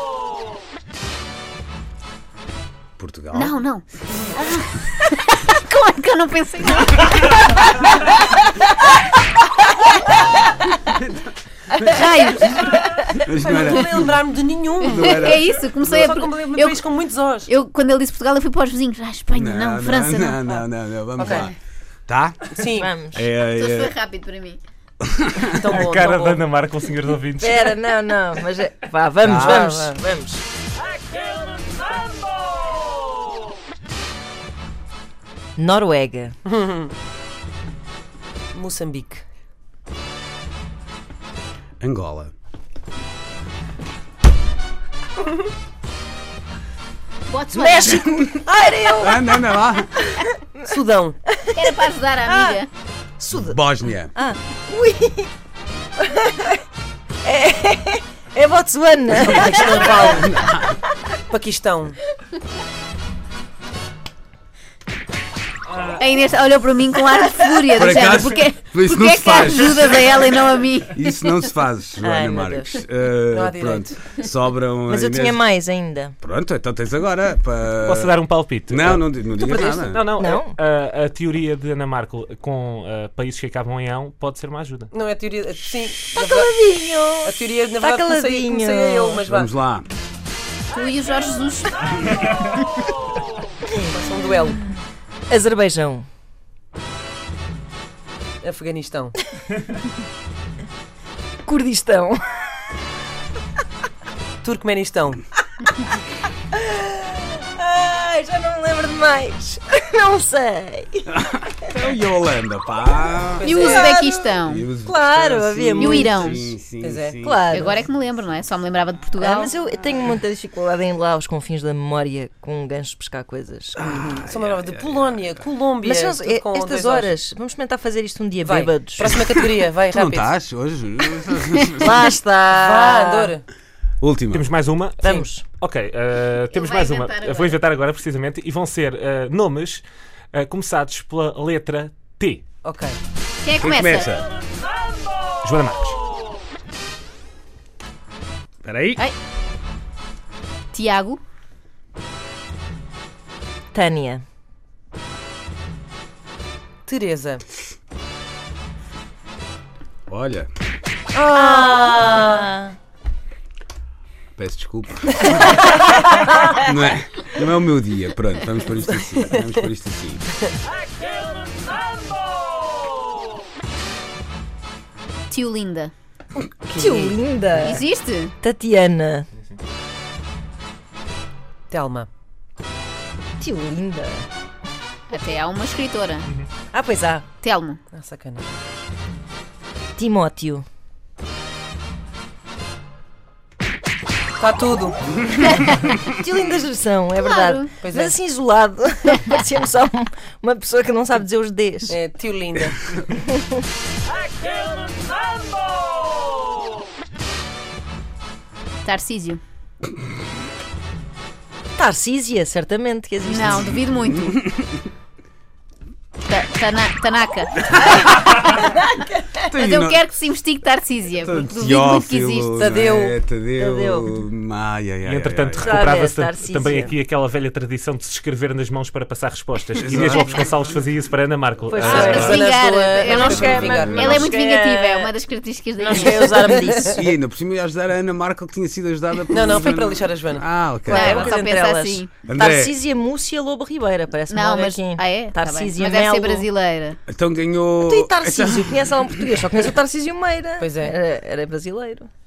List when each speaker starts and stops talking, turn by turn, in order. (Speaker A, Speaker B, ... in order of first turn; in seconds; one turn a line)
Speaker A: 3.0-3.5
Speaker B: 3.3-8.7
Speaker B: 11.7-12.7
Speaker A: 13.1-14.2
Speaker C: 13.2-17.5
Speaker A: 14.8-15.4
Speaker B: 14.9-16.8
Speaker B: 17.5-20.6
Speaker A: 19.3-21.5
Speaker C: 21.2-21.5
Speaker A: 22.1-22.6
Speaker C: 22.5-22.9
Speaker D: 22.7-23.3
Speaker A: 23.1-23.9
Speaker B: 23.4-24.6
Speaker A: 25.1-25.8
Speaker C: 25.4-26.4
Speaker E: 25.7-27.8
Speaker D: 27.4-30.4
Speaker A: 29.2-29.6
Speaker C: 29.3-30.0
Speaker D: 35.6-36.3
Speaker C: 36.5-36.9
Speaker C: 38.5-39.2
Speaker A: 41.8-42.3
Speaker B: 47.3-48.1
Speaker D: 47.5-49.3
Speaker A: 48.0-48.4
Speaker A: 49.0-50.0
Speaker D: 50.0-50.3
Speaker C: 50.6-51.2
Speaker D: 51.3-52.6
Speaker B: 51.5-52.7
Speaker D: 53.2-53.6
Speaker A: 53.3-54.1
Speaker D: 54.1-55.3
Speaker D: 56.0-56.6
Speaker D: 57.2-60.2
Speaker C: 59.2-60.5
Speaker A: 60.0-60.8
Speaker C: 61.3-62.0
Speaker B: 65.9-71.1
Speaker A: 67.8-69.8
Speaker A: 70.9-75.4
Speaker D: 72.0-72.7
Speaker C: 73.3-74.0
Speaker D: 74.9-76.2
Speaker A: 76.2-80.0
Speaker E: 77.8-84.9
Speaker D: 79.4-80.5
Speaker C: 84.9-86.6
Speaker D: 86.1-89.2
Speaker C: 87.2-89.5
Speaker A: 89.3-89.9
Speaker B: 90.7-92.5
Speaker C: 93.9-94.6
Speaker D: 95.3-96.0
Speaker C: 98.4-99.2
Speaker D: 101.4-102.8
Speaker C: 104.4-105.2
Speaker D: 106.5-111.1
Speaker A: 111.1-113.5
Speaker C: 113.4-113.9
Speaker B: 113.4-114.7
Speaker D: 113.6-114.3
Speaker A: 114.4-117.5
Speaker D: 114.8-116.3
Speaker B: 115.8-116.5
Speaker C: 116.8-117.2
Speaker D: 117.2-117.8
Speaker B: 117.5-119.6
Speaker D: 119.2-123.8
Speaker A: 123.8-125.2
Speaker C: 124.1-127.1
Speaker D: 125.8-129.2
Speaker C: 128.4-130.3
Speaker A: 129.9-132.0
Speaker D: 131.8-133.3
Speaker C: 132.5-133.4
Speaker A: 134.0-134.4
Speaker E: 134.3-142.4
Speaker D: 135.0-135.4
Speaker B: 136.5-137.6
Speaker C: 142.6-143.0
Speaker B: 143.4-144.1
Speaker A: 143.6-144.2
Speaker E: 145.4-146.0
Speaker A: 148.6-149.0
Speaker B: 150.7-151.2
Speaker D: 153.7-154.2
Speaker C: 156.8-157.4
Speaker A: 160.1-160.5
Speaker C: 161.1-162.4
Speaker D: 161.3-162.7
Speaker A: 164.4-165.6
Speaker D: 165.3-166.6
Speaker A: 166.6-170.2
Speaker C: 168.9-169.4
Speaker B: 175.3-175.9
Speaker D: 176.7-177.9
Speaker C: 176.7-177.7
Speaker B: 177.6-178.3
Speaker D: 178.4-179.3
Speaker C: 181.7-182.1
Speaker D: 183.4-184.2
Speaker B: 185.1-186.3
Speaker D: 186.7-187.3
Speaker B: 187.4-187.8
Speaker C: 187.9-188.5
Speaker D: 190.0-190.6
Speaker C: 194.3-195.0
Speaker B: 195.4-196.0
Speaker D: 196.0-202.0
Speaker B: 197.2-197.7
Speaker C: 197.8-198.1
Speaker C: 201.9-202.9
Speaker D: 203.1-203.7
Speaker B: 208.8-209.4
Speaker D: 211.8-213.8
Speaker B: 213.2-214.4
Speaker A: 214.5-214.8
Speaker B: 216.2-218.0
Speaker D: 218.0-219.4
Speaker A: 219.4-220.0
Speaker B: 219.5-222.8
Speaker A: 221.2-225.8
Speaker C: 222.6-223.1
Speaker D: 223.6-224.1
Speaker E: 225.0-232.4
Speaker D: 225.5-226.9
Speaker A: 229.8-230.6
Speaker C: 229.9-230.3
Speaker D: 231.7-235.1
Speaker C: 231.8-234.1
Speaker B: 232.1-236.8
Speaker A: 233.2-234.3
Speaker D: 235.8-237.0
Speaker A: 236.9-241.3
Speaker C: 239.3-240.4
Speaker B: 240.9-242.2
Speaker D: 240.9-246.5
Speaker A: 242.2-242.7
Speaker B: 244.3-247.0
Speaker A: 247.1-248.8
Speaker D: 247.8-252.1
Speaker C: 250.6-251.0